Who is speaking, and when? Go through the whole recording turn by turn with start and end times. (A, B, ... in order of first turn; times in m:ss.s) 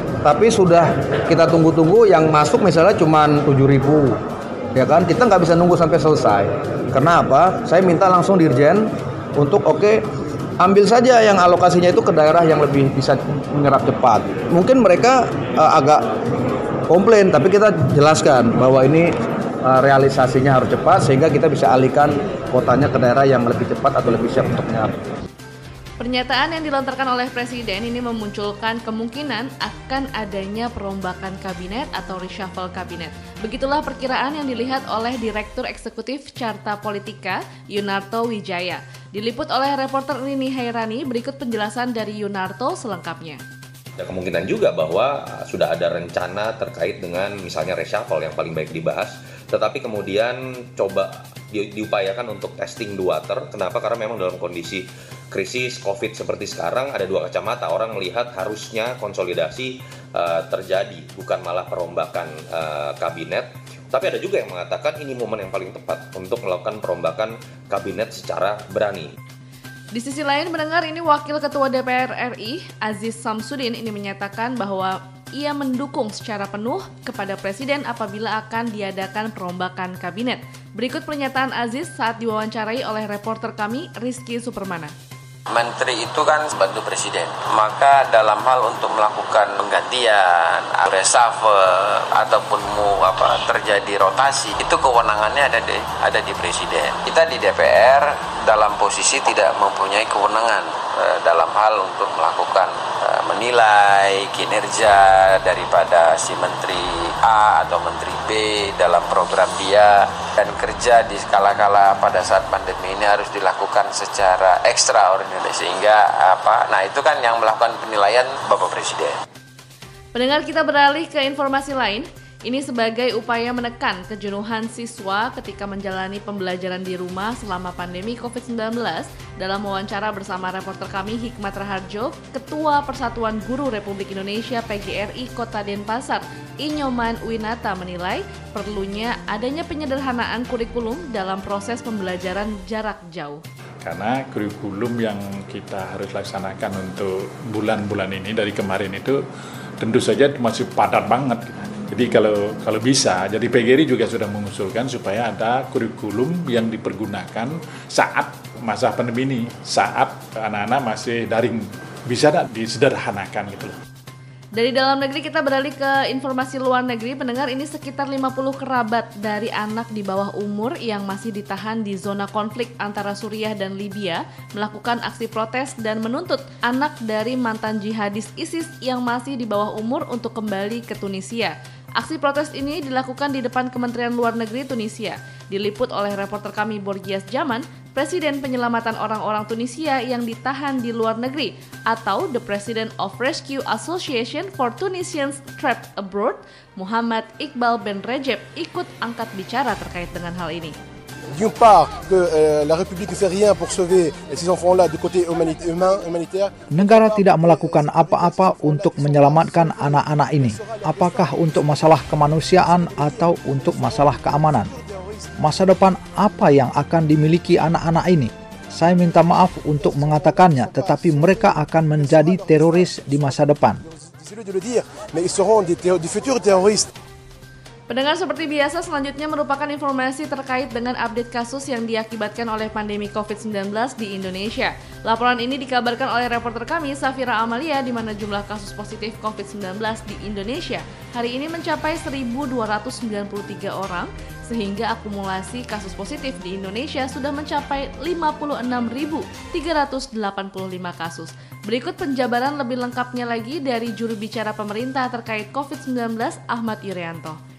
0:00.2-0:04.2 A
0:04.7-0:10.0 A
0:10.6-0:16.0 A
0:16.9-0:19.1 A
0:19.6-0:25.0 A
0:26.0-0:43.4 B
0:44.0-1:09.1 C
1:09.9-1:24.9 B
1:25.5-1:59.2 D
2:00.1-2:23.4 B
2:23.8-2:29.2 E
2:29.8-2:43.8 E
2:44.5-3:20.8 B
3:21.3-3:31.3 F
3:26.7-3:34.7 G
3:32.8-3:34.8 F
3:35.4-3:43.8 G
3:39.8-3:43.2 F
3:44.2-3:46.9 F
3:47.9-4:17.4 B